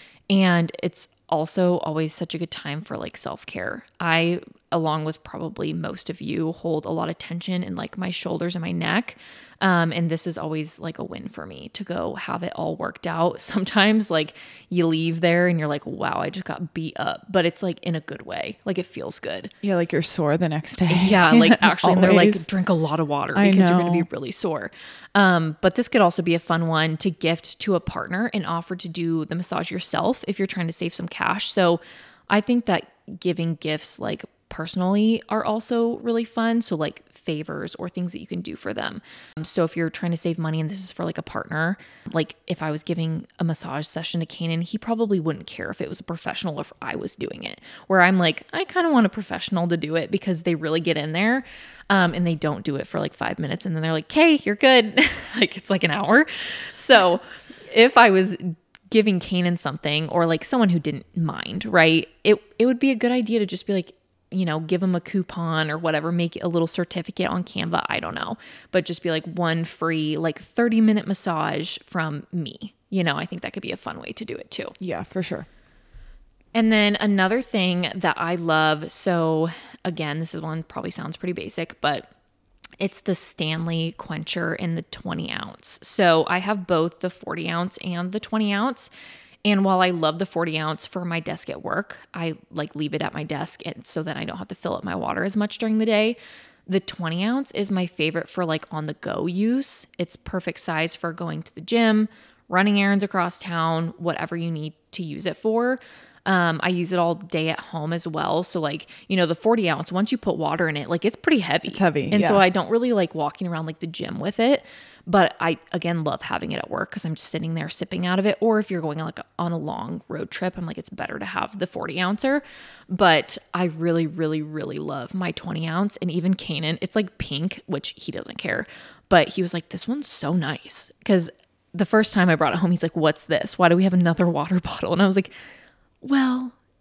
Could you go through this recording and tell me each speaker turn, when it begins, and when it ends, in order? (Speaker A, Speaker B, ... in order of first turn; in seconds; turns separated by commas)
Speaker A: 0.3-19.5, Speaker B: 19.6-22.4, Speaker A: 20.9-74.7, Speaker B: 23.3-24.1, Speaker B: 74.8-75.5, Speaker A: 76.5-82.1, Speaker A: 82.8-88.9, Speaker A: 89.4-135.3, Speaker B: 111.7-112.4, Speaker A: 136.0-136.5